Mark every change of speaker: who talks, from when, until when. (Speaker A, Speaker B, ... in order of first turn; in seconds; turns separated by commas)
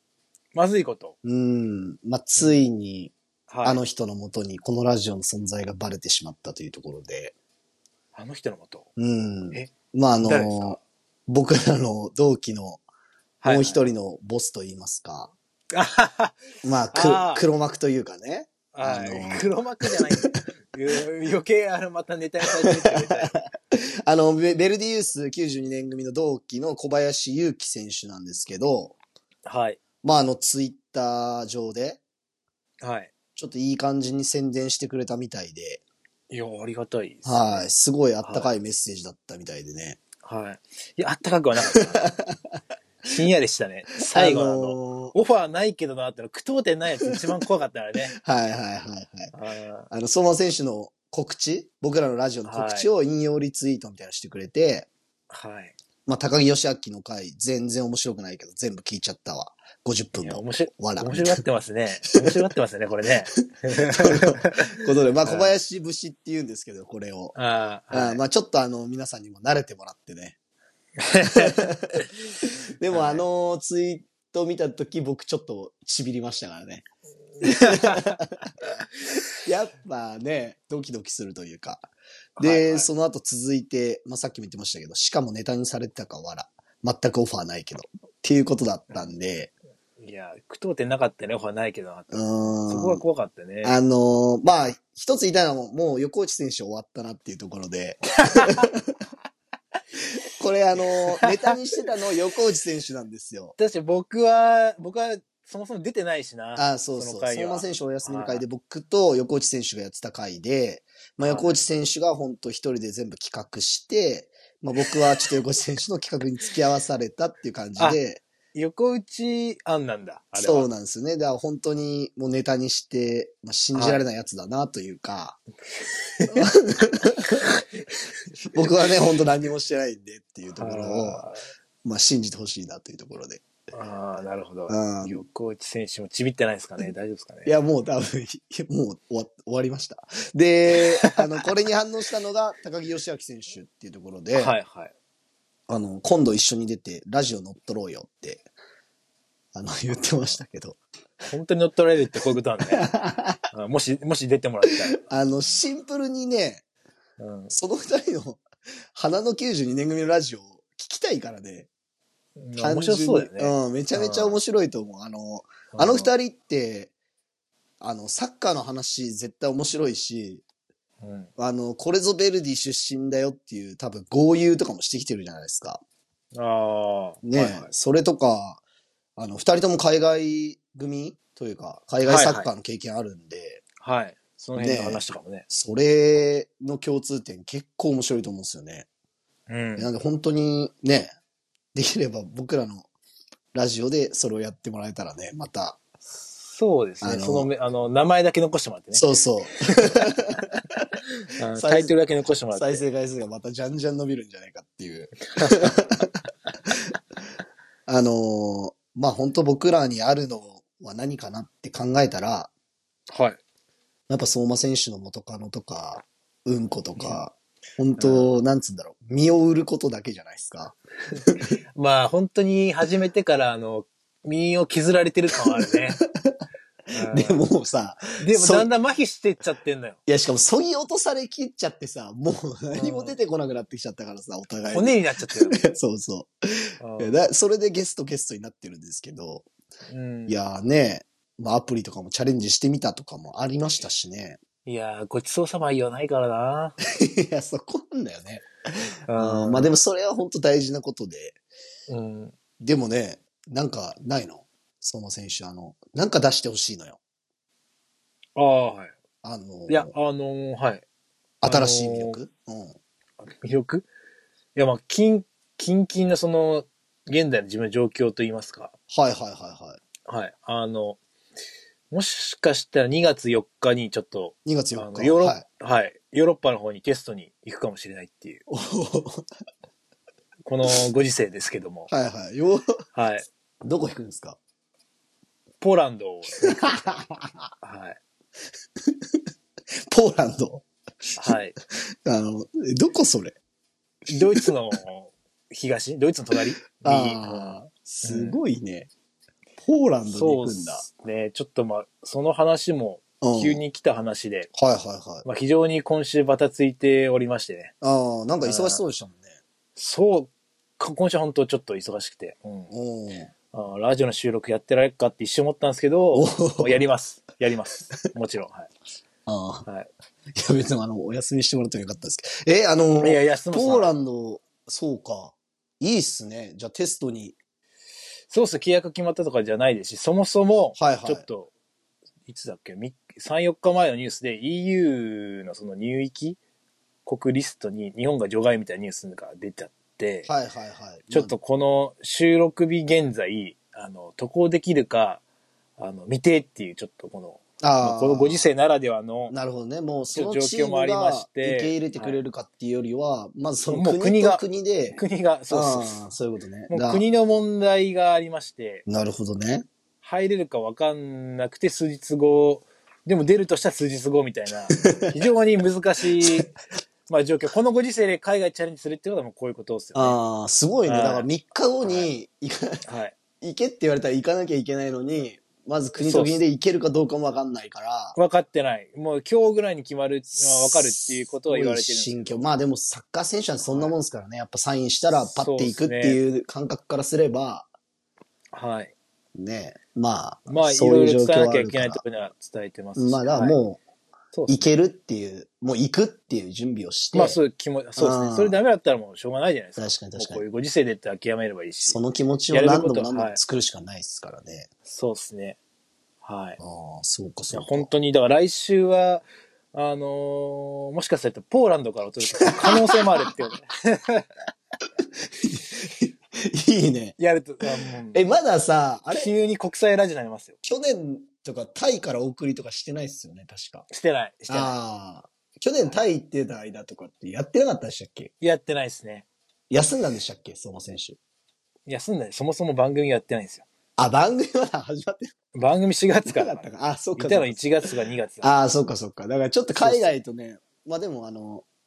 Speaker A: 0.5-1.1, Speaker B: 1.2-7.3, Speaker A: 3.5-3.8, Speaker A: 8.1-8.9, Speaker B: 9.0-12.8, Speaker A: 10.2-10.8, Speaker A: 13.4-13.8, Speaker B: 13.4-15.3, Speaker A: 15.7-16.4, Speaker B: 16.6-20.3, Speaker A: 16.9-17.4, Speaker A: 18.7-23.4, Speaker B: 22.6-28.9, Speaker A: 29.4-29.8, Speaker B: 30.0-32.0, Speaker A: 32.8-33.1, Speaker B: 33.4-35.8, Speaker A: 36.3-37.7, Speaker B: 37.2-40.0, Speaker A: 38.2-38.5, Speaker A: 40.2-42.1, Speaker B: 41.8-42.1, Speaker A: 43.0-48.1, Speaker B: 44.1-45.1, Speaker B: 48.1-49.3, Speaker A: 49.3-49.9, Speaker B: 49.9-54.9, Speaker A: 52.5-52.9, Speaker A: 55.3-55.7, Speaker B: 56.0-61.4, Speaker A: 60.2-65.5, Speaker B: 63.9-67.3, Speaker A: 67.3-68.2, Speaker B: 67.9-70.3, Speaker A: 71.0-72.1, Speaker B: 71.2-76.8, Speaker A: 72.9-73.2, Speaker A: 77.4-78.2, Speaker B: 77.4-78.3, Speaker B: 79.4-89.5, Speaker A: 82.4-82.9, Speaker A: 90.0-93.8, Speaker B: 92.1-93.0, Speaker B: 93.6-99.0, Speaker A: 98.2-98.7, Speaker B: 100.3-103.5, Speaker A: 101.2-101.5, Speaker A: 103.6-108.4, Speaker B: 106.5-118.2, Speaker A: 111.2-111.5, Speaker A: 118.5-120.7, Speaker B: 120.3-125.4, Speaker A: 123.7-124.0, Speaker A: 126.1-126.4, Speaker B: 126.3-127.4, Speaker B: 128.5-131.2, Speaker A: 130.6-131.4, Speaker B: 131.8-133.4, Speaker A: 133.7-137.6, Speaker B: 134.7-135.1, Speaker B: 137.4-144.5, Speaker A: 140.8-141.1, Speaker A: 144.3-144.9, Speaker B: 145.7-148.5, Speaker B: 149.5-150.8, Speaker A: 149.9-150.3, Speaker A: 151.3-152.9, Speaker B: 152.8-153.4, Speaker A: 153.5-155.6, Speaker B: 154.9-156.6, Speaker A: 157.2-157.5, Speaker B: 157.5-158.4, Speaker B: 158.9-161.7, Speaker A: 162.4-164.4, Speaker B: 162.6-166.9, Speaker A: 165.7-166.1, Speaker B: 167.8-170.4, Speaker A: 171.0-171.3, Speaker B: 171.4-175.8, Speaker A: 176.3-177.7, Speaker B: 177.2-178.6, Speaker B: 179.2-183.6, Speaker A: 182.0-182.5, Speaker A: 183.8-185.4, Speaker B: 184.6-188.9, Speaker A: 189.5-189.9, Speaker B: 189.8-191.1, Speaker B: 191.7-192.9, Speaker B: 193.5-195.8, Speaker A: 196.4-199.1, Speaker B: 197.0-197.5, Speaker B: 198.9-200.9, Speaker A: 199.7-200.1, Speaker A: 201.3-202.8, Speaker B: 201.6-201.9, Speaker B: 202.5-206.1, Speaker A: 205.3-205.7, Speaker B: 207.9-212.5, Speaker A: 213.1-213.4, Speaker B: 214.1-221.5, Speaker A: 218.0-218.3, Speaker A: 221.8-226.0, Speaker B: 225.5-226.3, Speaker B: 226.9-228.7, Speaker A: 226.9-227.4, Speaker A: 228.2-230.0, Speaker B: 230.1-239.5, Speaker A: 232.7-233.2, Speaker A: 234.7-235.6, Speaker A: 236.8-237.2, Speaker A: 239.9-240.4, Speaker B: 240.3-244.4, Speaker A: 244.7-246.8, Speaker B: 246.9-248.5, Speaker A: 249.1-249.7, Speaker B: 249.1-251.4, Speaker A: 251.9-252.3, Speaker B: 252.6-257.0, Speaker A: 258.4-258.9, Speaker B: 259.2-259.9, Speaker A: 259.7-260.8, Speaker B: 261.4-262.8, Speaker A: 261.4-262.2, Speaker A: 263.2-263.9, Speaker A: 264.5-268.7, Speaker B: 268.9-269.8, Speaker A: 270.1-271.0, Speaker A: 271.9-278.4, Speaker B: 274.4-275.4, Speaker B: 278.5-279.2, Speaker A: 280.4-281.9, Speaker B: 281.9-282.8, Speaker A: 282.9-283.2, Speaker B: 283.6-284.4, Speaker A: 285.6-286.9, Speaker B: 286.4-287.4, Speaker A: 287.6-288.0, Speaker B: 289.9-290.6, Speaker A: 291.2-291.6, Speaker B: 292.0-293.4, Speaker A: 294.1-298.4, Speaker B: 296.8-298.9, Speaker B: 299.6-300.9, Speaker A: 300.1-304.5, Speaker B: 303.2-303.6, Speaker B: 304.5-305.2, Speaker A: 305.2-307.7, Speaker B: 307.8-309.4, Speaker A: 308.4-308.8, Speaker A: 309.8-312.7, Speaker B: 312.7-313.3, Speaker A: 313.5-318.7, Speaker B: 316.1-316.8, Speaker B: 319.2-319.6, Speaker B: 320.3-327.4, Speaker A: 323.0-323.9, Speaker A: 328.3-331.5, Speaker B: 330.8-331.2, Speaker A: 332.2-336.4, Speaker A: 337.0-340.3, Speaker B: 340.2-341.3, Speaker A: 341.1-345.2, Speaker A: 345.8-349.3, Speaker B: 347.6-348.4, Speaker B: 349.3-357.0, Speaker A: 350.1-352.2, Speaker A: 353.7-354.4, Speaker A: 354.9-356.0, Speaker A: 356.7-358.9, Speaker B: 358.9-359.7, Speaker A: 360.0-366.5, Speaker B: 364.7-365.1, Speaker B: 366.2-366.5, Speaker A: 367.1-370.2, Speaker B: 369.9-372.8, Speaker A: 370.8-371.3, Speaker A: 371.8-372.1, Speaker A: 372.8-373.1, Speaker B: 373.4-378.1, Speaker A: 376.0-376.4, Speaker A: 378.1-382.4, Speaker B: 380.3-387.7, Speaker A: 383.6-383.9, Speaker A: 385.4-386.2, Speaker A: 388.5-388.9, Speaker B: 389.3-392.0, Speaker A: 390.5-393.6, Speaker B: 392.9-393.8, Speaker A: 394.3-394.7, Speaker B: 394.5-397.4, Speaker A: 397.1-402.0, Speaker B: 398.0-398.6, Speaker B: 399.8-400.4, Speaker B: 401.8-404.7, Speaker A: 402.5-403.4, Speaker A: 404.9-405.6, Speaker A: 406.2-406.6, Speaker B: 406.6-407.9, Speaker A: 407.5-414.3, Speaker B: 412.4-413.0, Speaker B: 415.0-417.1, Speaker A: 417.2-418.2, Speaker B: 418.1-419.3, Speaker A: 419.1-420.6, Speaker B: 420.6-423.9, Speaker A: 423.9-424.8, Speaker B: 424.5-428.3, Speaker A: 428.4-429.3, Speaker B: 429.7-431.2, Speaker A: 431.9-433.6, Speaker B: 434.0-435.3, Speaker A: 435.5-436.6, Speaker B: 436.3-437.6, Speaker A: 437.1-438.5, Speaker B: 438.4-441.6, Speaker A: 439.7-440.1